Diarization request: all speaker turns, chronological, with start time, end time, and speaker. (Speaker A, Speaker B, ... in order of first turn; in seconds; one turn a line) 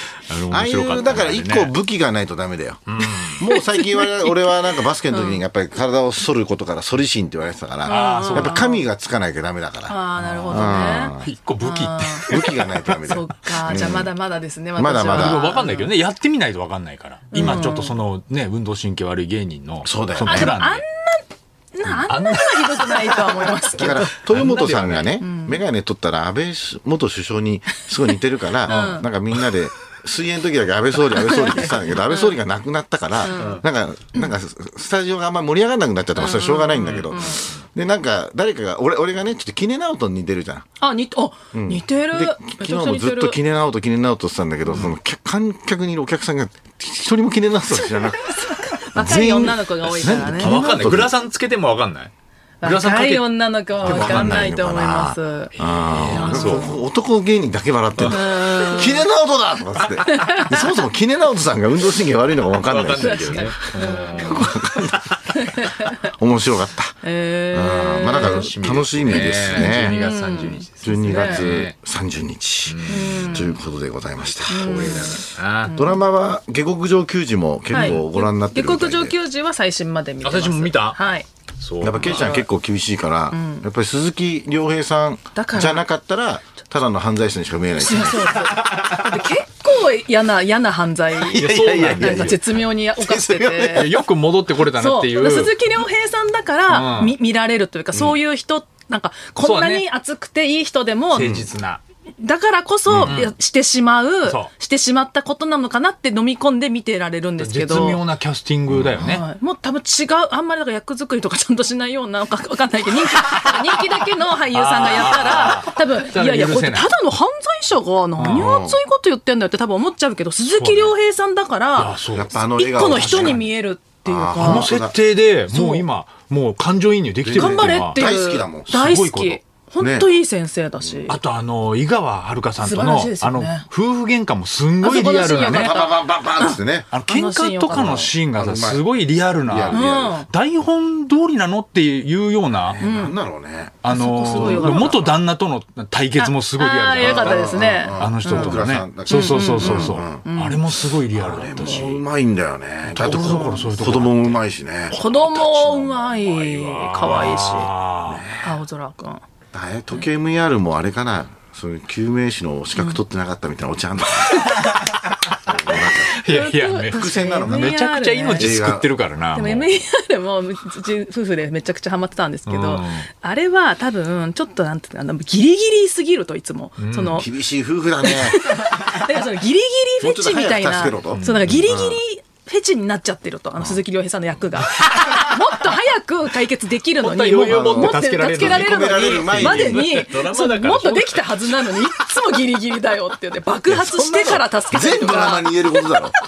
Speaker A: 0.3-1.7
Speaker B: 0.5-10.0
Speaker A: 2.9-3.4
Speaker C: 3.5-4.3
Speaker C: 5.1-5.4
Speaker C: 7.8-8.8
Speaker A: 7.8-8.7
Speaker C: 9.9-12.4
Speaker A: 10.2-13.2
Speaker B: 10.5-11.3
Speaker B: 12.3-14.1
Speaker C: 13.0-15.9
Speaker B: 14.8-15.4
Speaker A: 15.1-20.8
Speaker C: 17.3-17.9
Speaker B: 17.4-17.7
Speaker B: 19.8-20.6
Speaker C: 20.2-24.2
Speaker A: 21.9-25.2
Speaker B: 23.8-40.6
Speaker C: 25.2-25.6
Speaker C: 28.6-29.1
Speaker A: 28.7-29.0
Speaker C: 31.1-32.3
Speaker C: 33.2-33.6
Speaker A: 33.3-33.6
Speaker C: 36.2-37.4
Speaker A: 36.8-37.6
Speaker C: 40.8-43.4
Speaker B: 41.5-51.1
Speaker A: 44.7-44.9
Speaker C: 47.8-50.9
Speaker A: 49.9-52.1
Speaker C: 52.6-56.8
Speaker A: 52.6-53.3
Speaker A: 53.8-54.5
Speaker B: 53.8-65.2
Speaker A: 55.5-56.8
Speaker C: 58.1-59.0
Speaker C: 60.1-60.7
Speaker A: 62.5-64.7
Speaker C: 63.0-64.8
Speaker C: 65.3-66.0
Speaker B: 66.0-67.0
Speaker C: 67.0-68.5
Speaker B: 67.5-70.0
Speaker A: 68.1-71.7
Speaker C: 69.1-71.5
Speaker B: 70.8-79.1
Speaker A: 72.7-73.5
Speaker C: 72.9-73.5
Speaker A: 74.3-75.8
Speaker C: 74.5-76.0
Speaker C: 77.7-81.2
Speaker A: 77.7-78.0
Speaker A: 80.2-81.0
Speaker A: 81.6-82.4
Speaker B: 81.8-88.6
Speaker C: 82.0-82.5
Speaker C: 83.3-83.6
Speaker C: 85.3-85.8
Speaker C: 87.8-94.0
Speaker B: 91.2-94.0
Speaker A: 91.3-92.4
Speaker A: 93.7-95.5
Speaker C: 94.7-101.4
Speaker A: 96.7-97.2
Speaker A: 99.4-99.9
Speaker A: 101.1-101.8
Speaker B: 101.2-101.5
Speaker C: 102.2-108.0
Speaker B: 102.9-103.2
Speaker A: 103.0-103.3
Speaker A: 104.2-104.5
Speaker A: 107.4-109.2
Speaker B: 108.7-109.1
Speaker C: 109.0-122.0
Speaker A: 114.5-116.9
Speaker A: 118.2-118.5
Speaker B: 118.3-118.8
Speaker A: 120.5-120.9
Speaker A: 121.8-123.4
Speaker B: 122.1-123.4
Speaker C: 122.5-124.7
Speaker B: 124.0-125.0
Speaker A: 124.3-128.1
Speaker C: 125.5-125.9
Speaker B: 127.2-128.7
Speaker C: 127.3-131.2
Speaker A: 128.7-129.4
Speaker B: 129.8-130.1
Speaker B: 130.8-131.1
Speaker A: 131.1-135.8
Speaker C: 132.6-133.7
Speaker C: 134.8-138.1
Speaker B: 135.3-136.9
Speaker A: 136.9-142.8
Speaker B: 137.7-138.8
Speaker B: 139.4-140.2
Speaker C: 139.7-140.3
Speaker B: 142.7-145.2
Speaker C: 142.8-143.2
Speaker A: 143.8-152.0
Speaker C: 143.9-145.1
Speaker C: 146.2-150.7
Speaker B: 147.0-150.2
Speaker B: 151.1-155.8
Speaker A: 152.9-154.4
Speaker C: 153.1-153.7
Speaker C: 154.9-157.7
Speaker A: 154.9-158.2
Speaker B: 158.1-158.6
Speaker C: 158.4-159.2
Speaker B: 159.5-164.5
Speaker C: 164.3-164.7
Speaker B: 165.4-166.2
Speaker A: 166.1-169.7
Speaker C: 166.1-168.5
Speaker B: 166.9-167.8
Speaker B: 168.4-168.9
Speaker C: 169.3-177.3
Speaker A: 172.5-173.1
Speaker A: 176.8-177.2
Speaker B: 177.2-178.7
Speaker C: 178.0-195.9
Speaker B: 180.0-182.0
Speaker A: 181.1-181.6
Speaker A: 187.0-191.8
Speaker B: 187.4-190.0
Speaker B: 193.7-196.1